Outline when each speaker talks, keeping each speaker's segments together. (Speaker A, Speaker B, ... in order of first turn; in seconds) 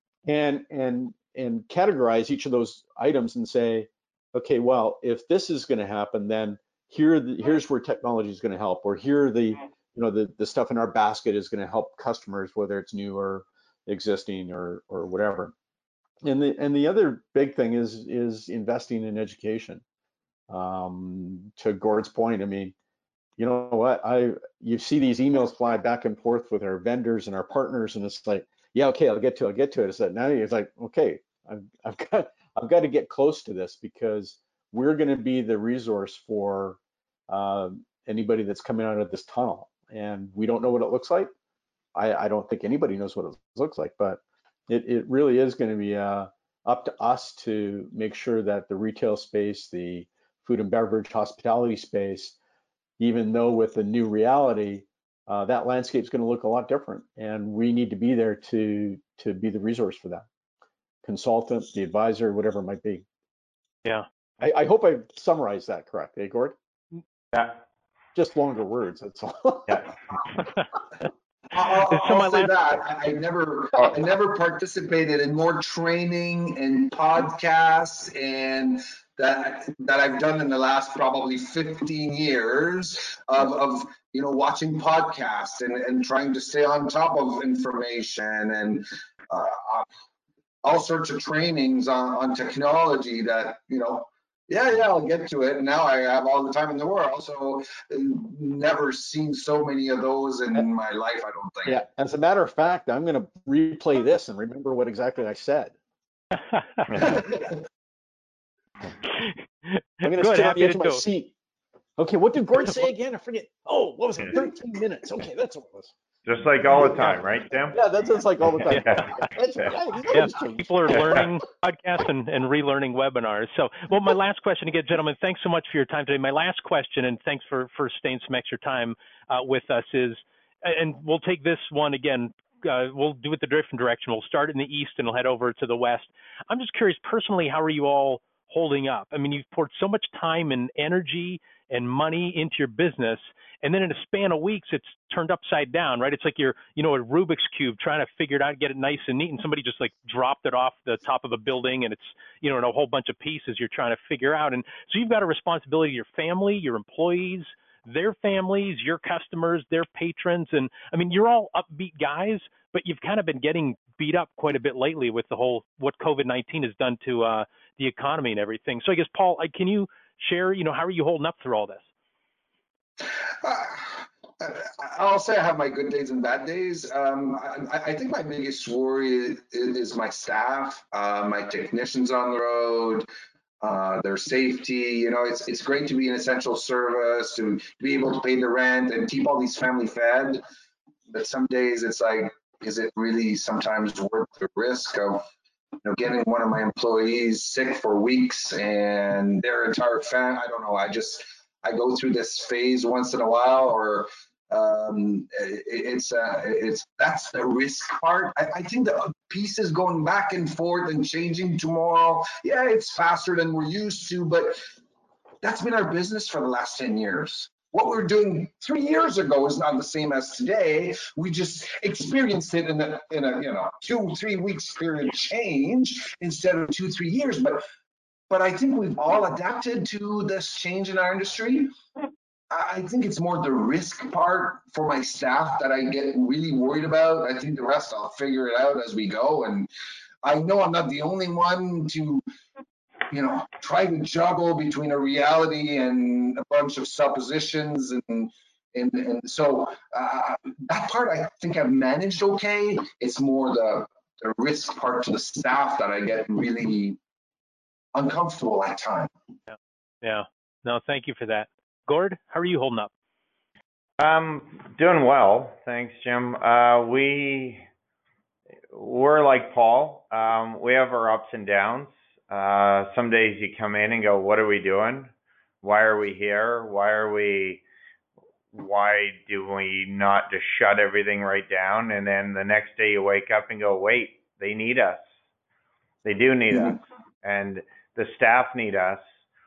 Speaker A: 0.2-15.5, 16.2-19.8, 20.5-22.7, 23.4-41.3, 41.9-52.4, 53.0-60.2, 61.0-63.0, 64.4-66.5, 68.1-69.9, 101.6-105.7, 107.0-107.4, 110.0-111.3, 112.0-115.9, 116.8-117.1, 117.7-121.0
Speaker B: 67.3-67.6, 116.2-117.8, 264.0-267.6, 268.7-275.1, 275.6-277.6, 278.5-285.0, 286.0-289.0
Speaker C: 71.5-89.9, 90.6-101.8, 173.4-183.1, 183.6-190.4, 191.1-195.2, 195.8-214.6, 215.4-227.6, 228.3-231.7, 232.5-239.7, 240.2-242.2, 243.1-257.0, 257.9-259.1
Speaker D: 71.9-72.5, 106.3-107.0, 109.2-111.0, 118.7-119.1, 120.1-171.8, 259.5-262.9